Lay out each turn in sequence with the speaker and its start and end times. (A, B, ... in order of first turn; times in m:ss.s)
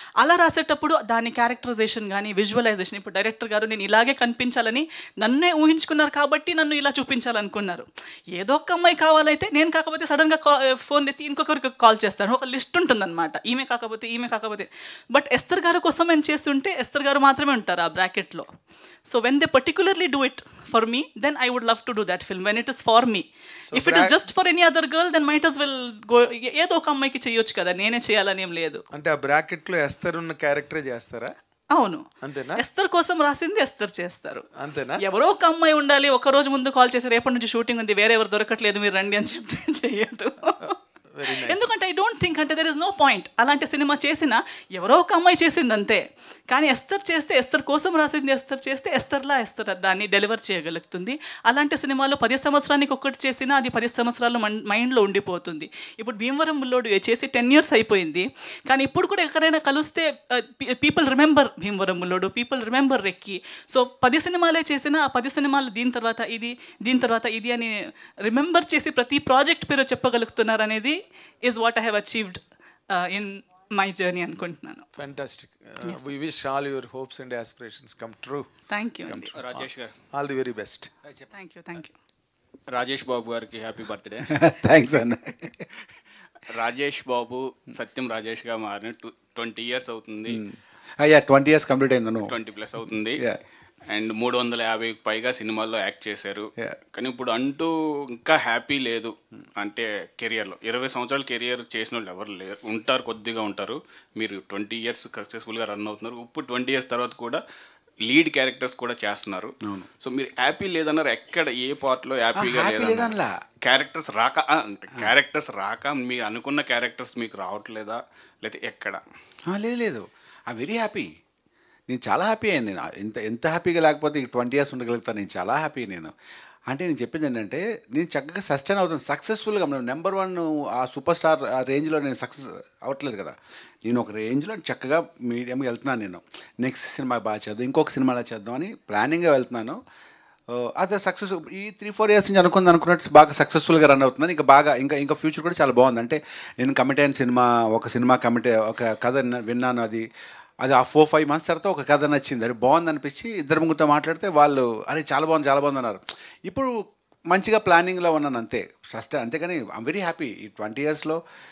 0:00.2-0:18.5 A
0:19.1-0:28.8 A
0:23.7-0:24.1 B
0:28.9-0:31.4 B
0:31.8-0:32.0 A
0:32.2-0:32.6 B
0:32.6-0:34.5 A
0:34.6-0:35.0 B
0:35.0-0:40.8 A
0:41.1-0:41.7 B
0:41.3-1:14.8 A
1:15.0-1:18.5 B
1:18.7-1:19.3 A
1:19.1-1:20.9 B
1:19.4-1:19.9 C
1:21.3-1:21.9 A
1:22.7-1:24.3 C
1:24.3-1:25.7 D
1:26.5-1:30.4 C
1:30.3-1:32.3 D
1:32.3-1:33.2 C
1:33.9-1:47.4 C
1:48.1-1:59.0 C
1:52.4-1:53.3 D
1:59.5-2:01.1 D
2:01.9-2:06.1 D
2:06.7-2:19.8 D
2:20.5-2:30.1 D
2:30.6-2:41.2 D